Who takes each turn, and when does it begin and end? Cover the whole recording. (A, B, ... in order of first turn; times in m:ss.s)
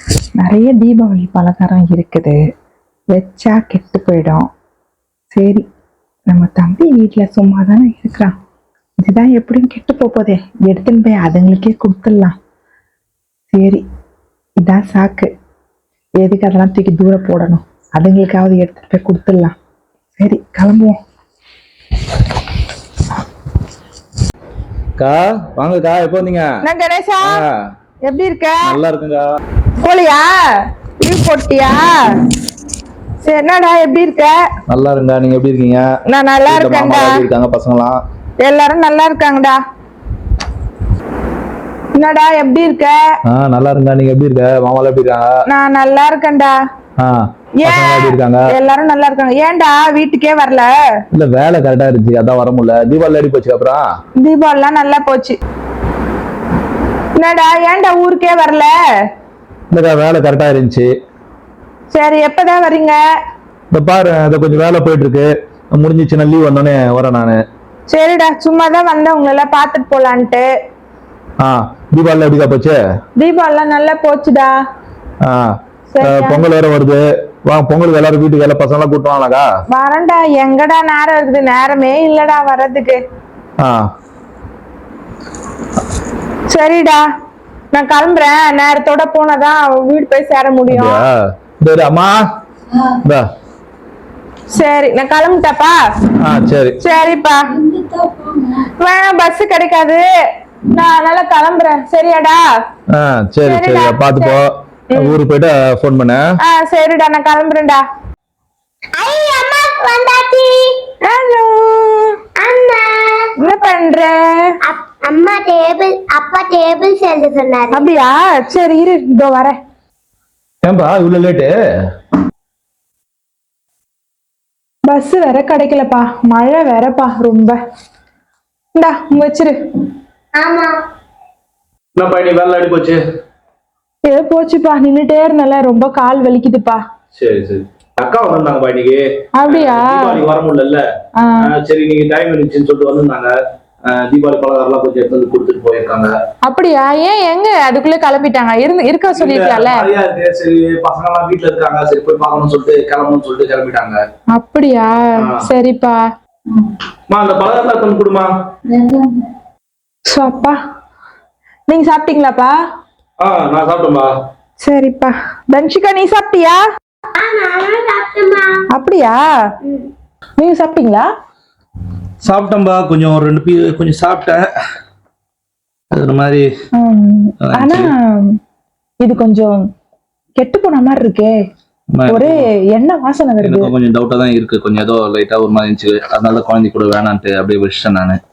0:00.4-0:02.4 A
0:03.1-0:04.5 A
0:05.3-0:05.6 A
0:06.3-0:08.3 A
0:09.0-0:12.4 A
0:13.5-0:13.8 A
0:14.6-0:15.3 A
0:16.2-0:19.6 A
0:20.2-0:21.0 A
0:25.0-0:26.5 B
0:26.6-0:27.4 A
0:28.1-0:28.8 A
0:28.6-0:29.2 B
0:29.8-0:32.2 A
0:33.2-0:34.4 A
0:34.7-0:35.8 B
0:36.1-0:37.2 A
0:36.5-0:38.0 B
0:38.4-0:39.6 A
0:42.0-0:43.0 A
0:43.3-0:45.3 B
0:45.5-0:46.6 A
0:47.0-0:48.5 B
0:47.6-0:50.7 A
0:51.1-0:53.8 B
0:54.2-0:55.4 A
0:57.2-0:58.7 A
0:59.7-1:00.9 B
1:01.9-1:03.0 A
1:03.7-1:07.4 B
1:07.9-1:10.5 A
1:11.4-1:12.8 B
1:13.2-1:14.5 A
1:15.9-1:16.5 A
1:16.0-1:19.5 B
1:19.7-1:23.0 A
1:26.5-1:27.0 A
1:27.7-1:31.0 A
1:30.7-1:32.2 B
1:32.8-1:33.2 B
1:34.5-1:35.8 A
1:36.2-1:36.8 B
1:36.8-1:37.6 A
1:38.6-1:40.1 A
1:40.7-1:42.4 A
1:42.9-1:46.2 B
1:43.4-1:44.4 A
1:46.4-1:47.8 A
1:49.0-1:50.8 C
1:51.0-1:52.2 A
1:52.4-1:53.3 C
1:53.4-1:54.6 A
1:54.6-1:57.9 C
1:57.7-1:59.6 A
2:00.6-2:01.5 B
2:04.9-2:07.6 A
2:08.8-2:09.6 A
2:10.4-2:10.8 C
2:12.0-2:13.0 B
2:14.0-2:16.8 A
2:17.2-2:20.8 B
2:19.4-2:20.2 A
2:21.2-2:21.5 A
2:21.4-2:23.3 B
2:23.9-2:26.1 B
2:26.5-2:29.9 A
2:29.2-2:34.0 B
2:34.3-2:36.0 A
2:35.2-2:35.5 B
2:37.1-2:38.3 B
2:40.1-2:40.6 A
2:41.7-2:42.6 A
2:43.2-2:44.1 B
2:44.6-2:46.6 A
2:47.2-2:48.6 C
2:48.7-2:49.3 A
2:49.6-2:49.9 C
2:50.4-2:51.1 A
2:52.2-2:54.5 B
2:55.9-2:56.5 B
2:56.8-2:58.4 A
2:57.4-2:57.9 B
2:59.0-2:59.6 A
3:00.4-3:01.4 A
3:02.0-3:02.4 B
3:02.1-3:03.7 A
3:03.4-3:08.2 B